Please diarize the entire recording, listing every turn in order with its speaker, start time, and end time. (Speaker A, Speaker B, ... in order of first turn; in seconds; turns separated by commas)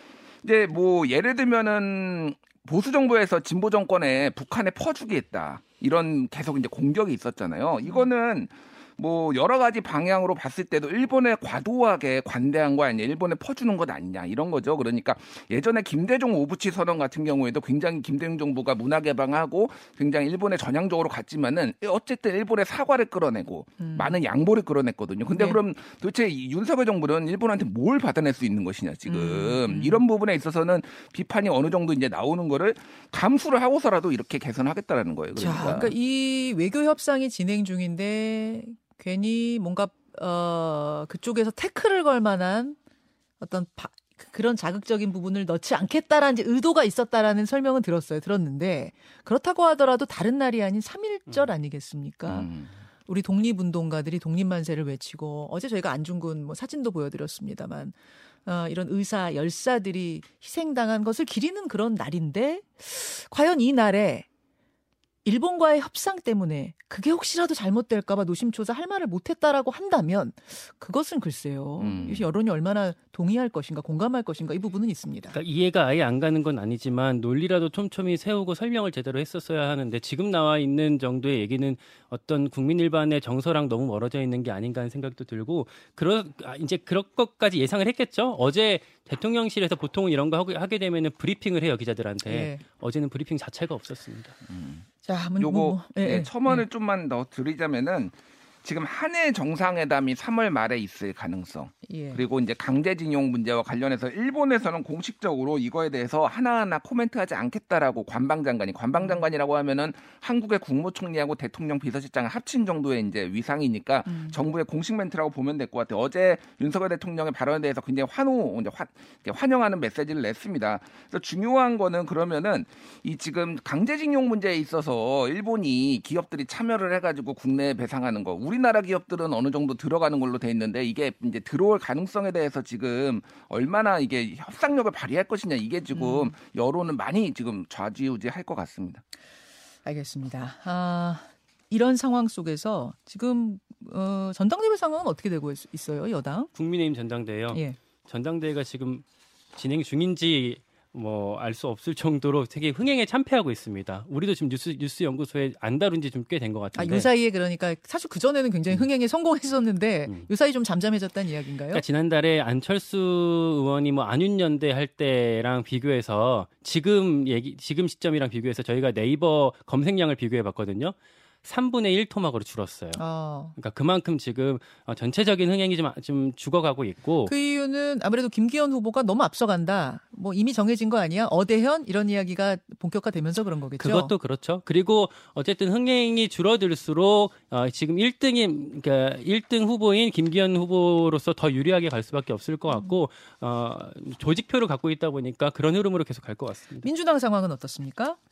Speaker A: 0.4-35.9, Speaker B: 23.8-24.2, Speaker B: 25.3-25.6, Speaker B: 29.1-30.0, Speaker B: 35.4-42.8, Speaker B: 43.4-52.5, Speaker A: 52.3-52.7, Speaker B: 53.0-64.3, Speaker B: 65.2-75.3, Speaker A: 71.8-72.3, Speaker C: 75.3-94.3, Speaker B: 92.2-92.6, Speaker A: 94.5-94.8, Speaker B: 95.0-96.7, Speaker A: 95.4-139.0, Speaker B: 101.8-102.2, Speaker B: 109.0-109.2, Speaker B: 114.1-114.3, Speaker B: 135.9-136.3, Speaker B: 139.8-146.5, Speaker C: 146.5-149.0, Speaker B: 147.5-147.8, Speaker C: 149.5-157.1, Speaker B: 156.7-161.8, Speaker C: 161.6-173.0, Speaker B: 172.9-173.5, Speaker C: 173.6-177.3, Speaker B: 177.2-184.1, Speaker C: 183.8-196.9, Speaker B: 196.8-198.2